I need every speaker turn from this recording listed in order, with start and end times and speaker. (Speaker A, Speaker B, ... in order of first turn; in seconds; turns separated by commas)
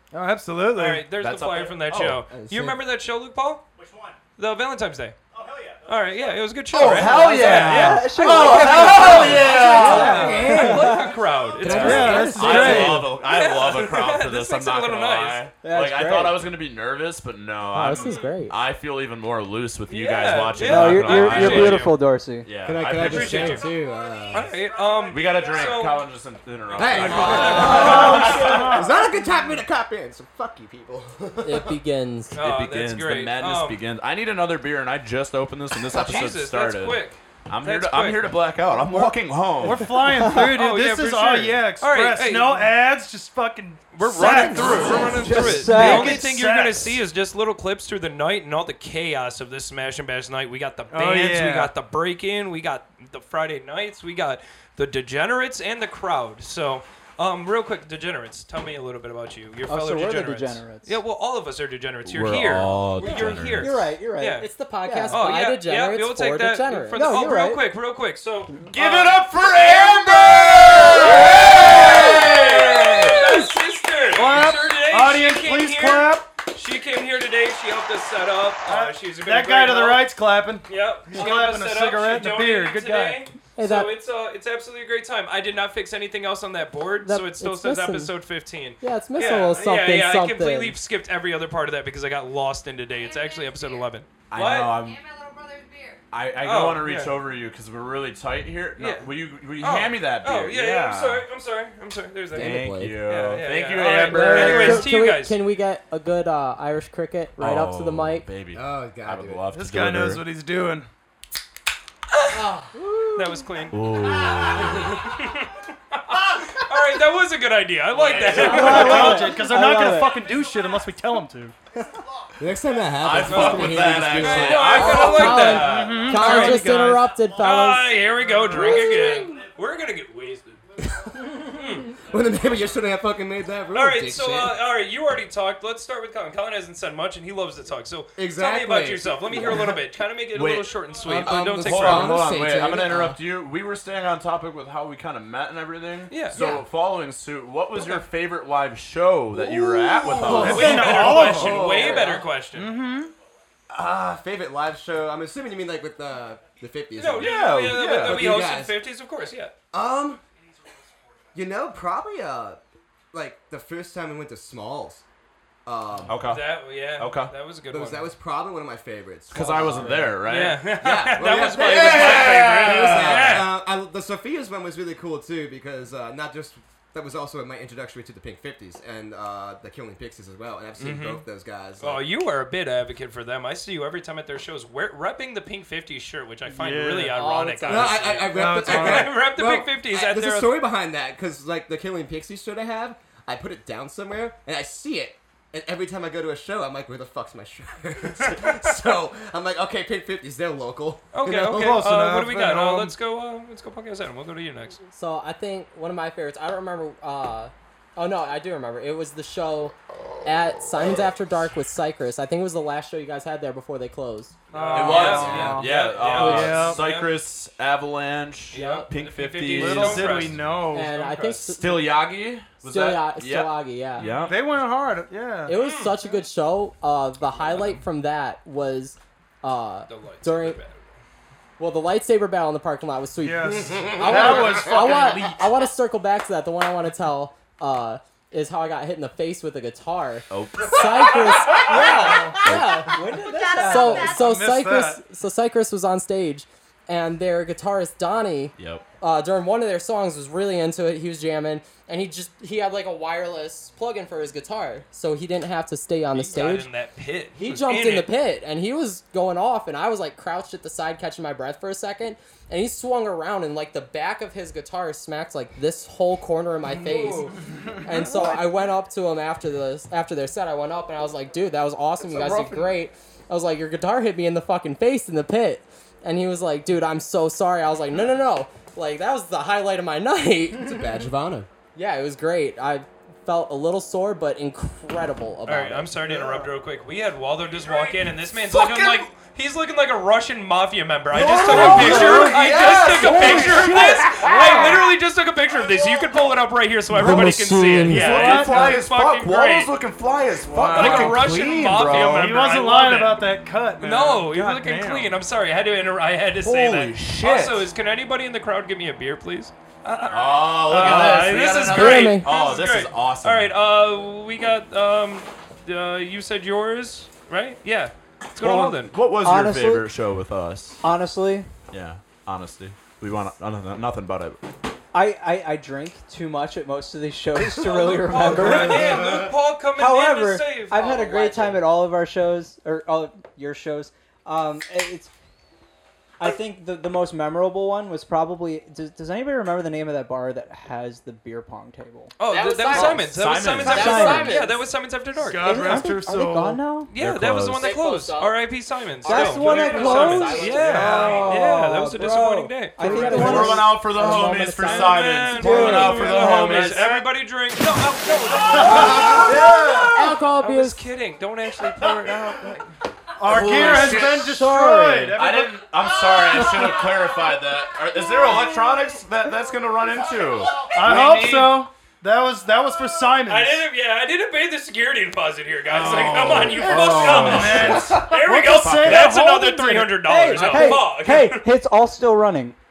Speaker A: 0.1-1.1, Speaker B: 0.7-3.6, Speaker C: 1.2-2.3, Speaker D: 2.3-2.8, Speaker B: 4.4-5.2, Speaker B: 5.8-15.5, Speaker C: 6.7-10.5, Speaker E: 7.2-11.1, Speaker D: 9.5-11.0, Speaker A: 9.7-10.8, Speaker D: 11.6-13.0, Speaker C: 11.6-23.6, Speaker A: 11.7-13.2, Speaker E: 12.1-12.5, Speaker E: 15.6-16.4, Speaker F: 17.7-18.6, Speaker B: 17.9-18.3, Speaker B: 19.9-22.0, Speaker E: 20.6-22.5, Speaker D: 22.6-24.5, Speaker B: 22.9-23.7, Speaker B: 24.3-26.1, Speaker G: 24.8-25.8, Speaker C: 25.1-28.6, Speaker D: 26.7-31.8, Speaker B: 26.7-28.9, Speaker A: 27.7-28.9, Speaker E: 27.7-28.4, Speaker F: 31.4-32.4, Speaker B: 32.3-33.8, Speaker C: 32.4-39.9, Speaker B: 35.9-38.3, Speaker A: 39.6-47.0, Speaker B: 39.7-42.7, Speaker E: 40.1-40.5, Speaker B: 43.9-64.5, Speaker D: 44.3-45.6, Speaker C: 44.5-45.4, Speaker E: 45.2-46.2, Speaker A: 50.9-51.7, Speaker E: 59.7-61.0, Speaker C: 62.0-63.7, Speaker E: 63.0-65.4, Speaker F: 64.3-67.1, Speaker B: 65.1-80.1, Speaker E: 66.9-67.6, Speaker C: 68.7-73.2, Speaker A: 74.1-76.3, Speaker A: 78.6-83.3, Speaker B: 80.7-94.8, Speaker F: 83.5-84.0, Speaker F: 87.0-88.1, Speaker F: 88.8-90.8, Speaker A: 89.2-89.6, Speaker G: 92.9-93.9, Speaker C: 94.3-95.0, Speaker G: 94.7-96.0, Speaker C: 96.1-101.2, Speaker B: 96.4-97.2, Speaker B: 98.8-105.4, Speaker D: 102.3-103.0, Speaker C: 102.3-104.9, Speaker F: 103.8-108.3, Speaker C: 107.4-110.2, Speaker D: 108.5-109.5, Speaker A: 109.5-110.9, Speaker D: 112.3-113.5, Speaker B: 113.1-113.8, Speaker C: 113.7-115.0, Speaker B: 114.5-119.3, Speaker D: 114.6-115.1, Speaker C: 117.9-119.2, Speaker E: 118.4-120.1, Speaker A: 118.4-121.5, Speaker D: 122.4-125.3, Speaker C: 123.0-126.6, Speaker B: 123.3-130.6, Speaker F: 124.7-129.4, Speaker A: 125.6-127.0, Speaker D: 130.8-134.6, Speaker B: 131.4-131.9, Speaker B: 133.7-142.2, Speaker D: 138.2-139.8, Speaker C: 140.3-151.4, Speaker D: 141.1-143.2, Speaker B: 146.1-146.4, Speaker D: 146.3-146.6, Speaker D: 149.4-152.2, Speaker A: 150.3-151.7, Speaker B: 150.4-152.8, Speaker F: 151.7-152.3, Speaker A: 152.5-153.1, Speaker D: 153.7-158.8, Speaker B: 157.0-159.5, Speaker C: 157.2-158.3, Speaker D: 159.7-160.2, Speaker D: 161.3-162.6, Speaker D: 163.1-165.0, Speaker D: 165.7-166.2, Speaker C: 166.1-167.3, Speaker B: 166.2-168.1, Speaker D: 167.7-182.0, Speaker C: 169.3-170.7, Speaker B: 170.2-173.5, Speaker C: 171.3-173.4, Speaker B: 180.8-181.2, Speaker B: 181.8-190.6, Speaker A: 186.5-187.2, Speaker F: 187.1-188.3, Speaker D: 187.7-202.0, Speaker A: 188.3-189.2, Speaker B: 198.2-198.7, Speaker B: 201.1-204.8, Speaker A: 201.6-202.9, Speaker F: 204.9-214.4, Speaker B: 214.5-217.2, Speaker A: 214.5-216.8, Speaker C: 214.7-220.6, Speaker D: 215.0-215.6, Speaker F: 216.0-216.7, Speaker B: 218.5-221.5, Speaker F: 218.5-218.9, Speaker A: 219.4-221.0, Speaker F: 220.7-222.1, Speaker C: 221.5-224.4, Speaker F: 222.6-224.2, Speaker B: 224.0-224.3, Speaker A: 224.1-225.6, Speaker F: 225.4-230.6, Speaker B: 225.5-226.0, Speaker B: 227.5-227.8, Speaker B: 229.9-231.0, Speaker F: 231.6-243.0, Speaker A: 233.2-235.4, Speaker D: 233.7-234.4, Speaker C: 240.3-241.2, Speaker E: 241.7-244.2, Speaker G: 241.8-244.3, Speaker C: 242.4-242.8, Speaker F: 243.6-256.7, Speaker A: 244.1-245.0, Speaker C: 248.6-248.9, Speaker B: 256.1-258.1, Speaker F: 257.4-280.8, Speaker B: 266.7-267.3, Speaker C: 272.1-272.7, Speaker D: 280.6-281.5, Speaker F: 281.7-286.1, Speaker B: 285.4-299.7, Speaker C: 288.4-289.1, Speaker C: 291.1-294.9, Speaker D: 291.1-294.0, Speaker A: 291.3-294.0, Speaker D: 296.9-298.1, Speaker C: 297.0-302.5, Speaker A: 297.9-298.8, Speaker A: 300.5-305.2, Speaker B: 300.5-303.3, Speaker B: 303.8-318.9, Speaker C: 306.4-307.7, Speaker C: 310.1-313.5, Speaker A: 310.7-311.2, Speaker F: 311.6-312.3, Speaker C: 318.4-320.8, Speaker E: 319.2-319.9, Speaker E: 320.8-321.5, Speaker C: 321.7-324.4, Speaker E: 324.9-329.1, Speaker B: 327.6-330.9, Speaker C: 328.5-328.9, Speaker E: 329.8-335.1, Speaker F: 330.8-331.6, Speaker E: 336.2-342.1, Speaker B: 342.2-345.7, Speaker F: 342.2-344.6, Speaker C: 342.7-344.3, Speaker E: 343.6-344.5, Speaker A: 345.1-346.6, Speaker E: 345.4-346.9, Speaker B: 346.9-353.3, Speaker C: 346.9-347.7, Speaker F: 347.5-356.4, Speaker E: 349.0-353.7, Speaker C: 352.9-356.9, Speaker B: 354.6-359.5, Speaker E: 355.4-356.3, Speaker A: 356.4-357.1, Speaker F: 358.2-360.8, Speaker A: 358.5-360.1, Speaker C: 358.5-359.3, Speaker B: 360.4-362.7, Speaker A: 363.2-365.6, Speaker C: 363.2-364.4, Speaker B: 363.3-364.1, Speaker F: 363.6-365.2, Speaker C: 365.1-371.6, Speaker G: 365.8-368.4, Speaker G: 370.0-370.7, Speaker A: 370.7-373.6, Speaker B: 373.2-381.4, Speaker C: 375.6-379.1, Speaker A: 375.9-380.1, Speaker E: 380.0-382.6, Speaker F: 380.3-380.8